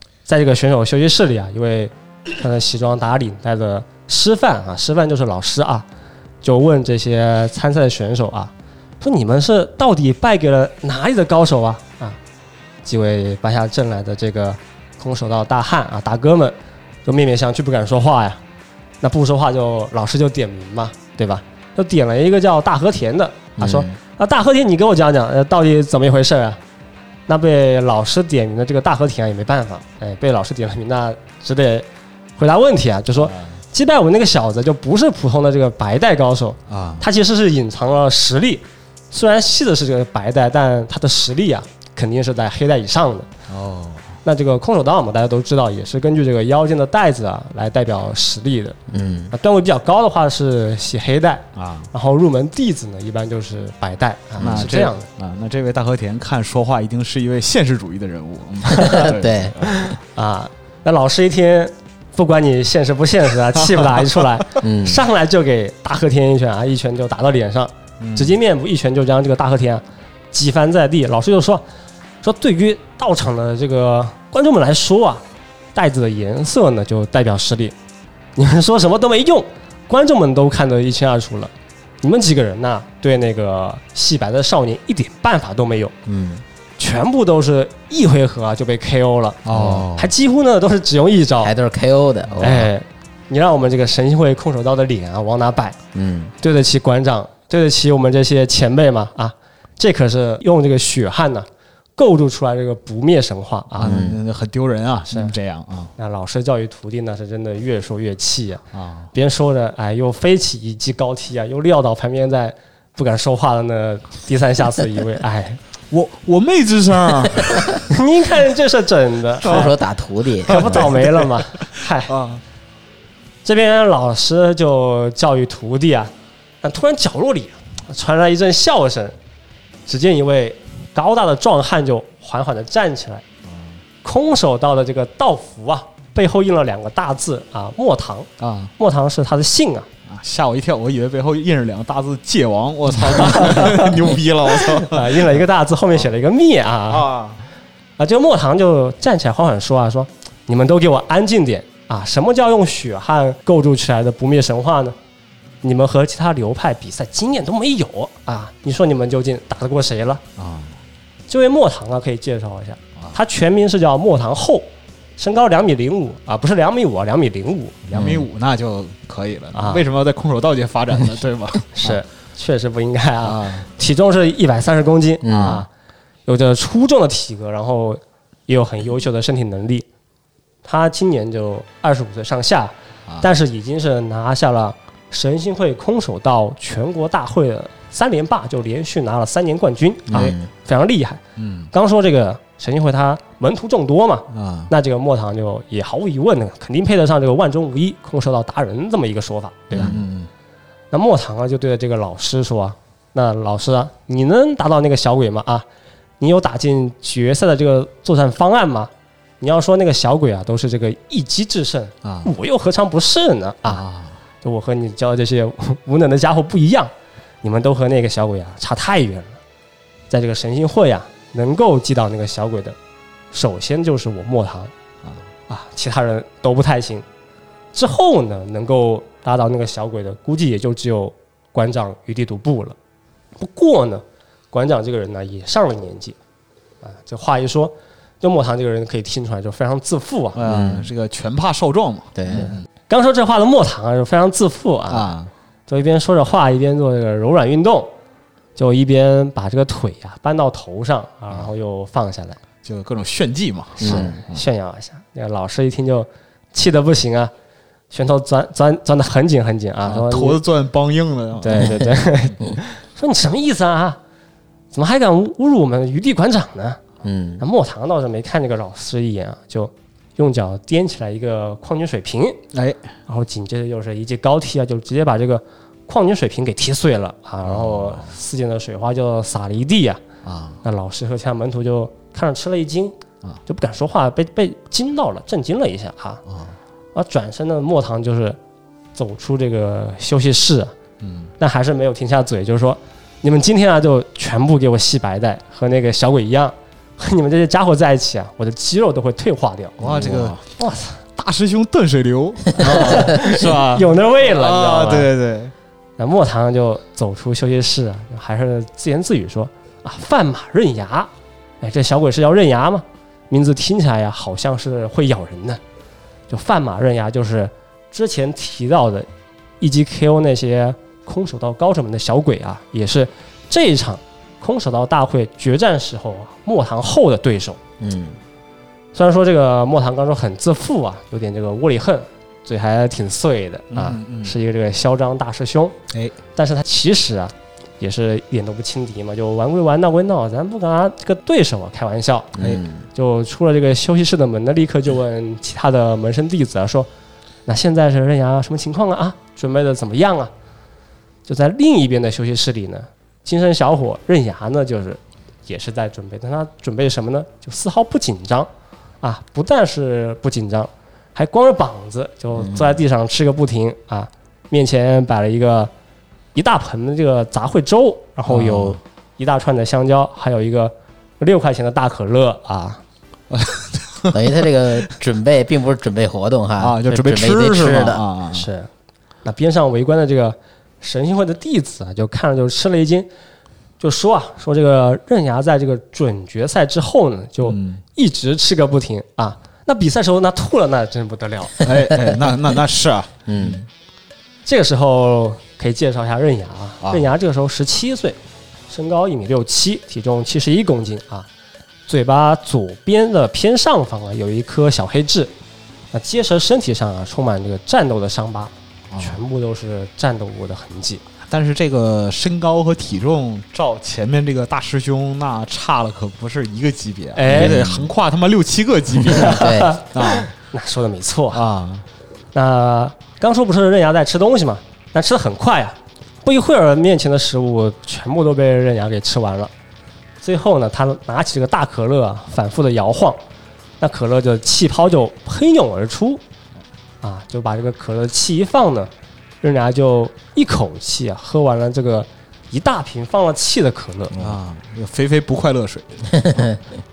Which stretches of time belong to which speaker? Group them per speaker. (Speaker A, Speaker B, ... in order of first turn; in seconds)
Speaker A: 0.3-5.9, 6.4-12.2, 12.9-18.4, 19.0-26.6, 27.3-31.9, 32.4-43.3, 44.2-48.8, 49.3-55.1, 58.7-59.1, 59.7-71.6, 72.2-75.2, 75.8-77.8, 78.4-86.0, 86.8-91.5, 92.4-95.8, 96.4-104.1, 106.0-108.6, 109.1-115.6, 117.9-119.8, 120.5-122.1, 123.5-129.2, 129.9-133.2, 134.0-139.9, 143.0-144.0, 144.8-147.1, 148.0-155.0, 155.6-160.2, 161.3-168.1, 169.5-169.8, 171.7-175.7, 176.3-179.9, 180.6-191.2, 191.7-200.0, 200.9-205.7, 206.2-213.8, 214.4-216.9, 217.4-219.4, 220.1-222.8, 223.3-224.7, 225.5-227.1, 227.7-232.8, 233.4-236.2, 236.8-240.4, 242.9-245.1, 245.7-247.9, 248.6-252.4, 253.8-257.3, 257.9-260.4, 261.4-264.0, 264.7-266.8, 267.4-272.4, 273.1-280.0, 280.6-286.2, 286.9-288.4, 288.9-290.7, 291.4-299.8, 300.6-301.0, 302.6-305.1, 306.0-315.6, 316.3-319.1, 319.6-327.6, 328.9-335.8, 336.4-342.3, 342.9-346.9, 347.5-350.3, 351.3-358.5, 359.0-365.7, 366.4-372.8, 378.3-378.7, 379.2-383.1, 383.8-391.7, 394.5-398.2, 398.7-401.3, 401.9-405.3, 405.9-411.0, 417.1-417.6, 419.2-421.4, 422.3-429.5, 430.2-433.2, 433.8-436.2, 437.0-438.9, 439.4-444.1
Speaker B: 23.6-24.0, 48.9-49.3, 54.4-54.7, 58.8-59.6, 64.6-65.0, 86.1-86.4, 89.5-89.8, 91.4-92.7, 95.9-96.3, 103.8-104.2, 119.4-120.9, 167.9-168.2, 175.2-175.6, 190.1-190.5, 199.7-200.0, 240.5-240.9, 242.2-242.5, 253.8-254.2, 267.0-267.4, 299.8-300.4, 327.8-328.2, 342.4-342.9, 362.4-362.8, 374.1-378.0, 393.3-393.6, 417.3-417.9, 419.2-419.8, 446.2-446.6
Speaker C: 33.2-33.5, 36.7-37.0, 43.5-44.1, 51.6-51.9, 54.4-59.8, 63.6-64.2, 68.0-68.4, 89.5-90.1, 92.3-92.5, 103.8-105.9, 108.7-109.1, 115.9-117.9, 119.5-119.7, 120.5-122.4, 133.5-133.8, 138.4-138.7, 140.1-145.4, 146.9-147.4, 160.4-160.8, 167.9-171.9, 173.2-173.7, 175.3-175.6, 191.4-191.7, 194.3-194.7, 199.7-200.3, 212.0-212.3, 213.7-214.1, 240.4-242.7, 244.9-245.3, 252.6-254.4, 259.8-261.9, 272.5-272.8, 277.5-278.1, 280.2-280.6, 286.3-286.6, 291.0-291.3, 299.8-300.4, 301.2-305.5, 333.7-334.3, 368.3-368.8, 373.3-374.2, 376.6-378.5, 387.4-387.8, 391.6-393.6, 396.8-397.1, 408.9-409.2, 411.3-420.3, 421.3-421.8, 444.1-446.4